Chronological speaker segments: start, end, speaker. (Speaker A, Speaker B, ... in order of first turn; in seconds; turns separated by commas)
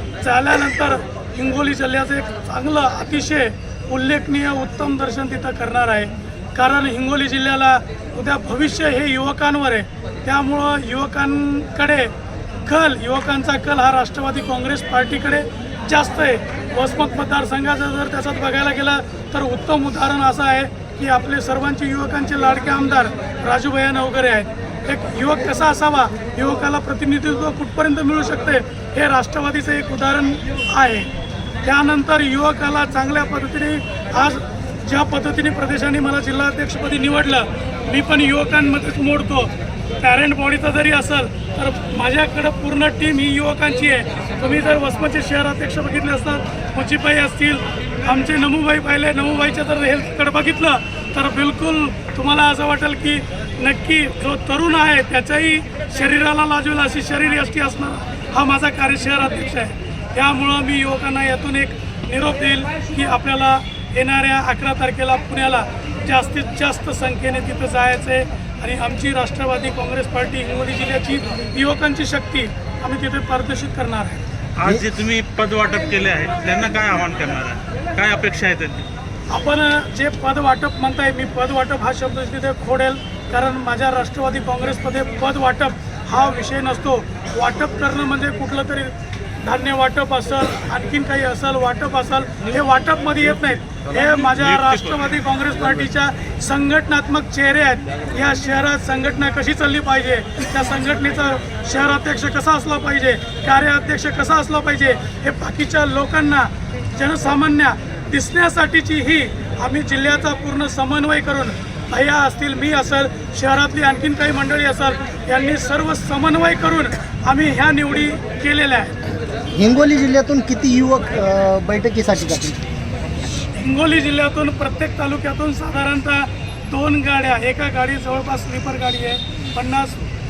Speaker A: 0.2-12.1, Speaker A: 12.7-31.1, Speaker A: 31.6-74.2, Speaker B: 74.6-78.8, Speaker A: 79.3-119.0, Speaker B: 94.3-94.8, Speaker C: 119.5-122.6, Speaker A: 123.6-130.1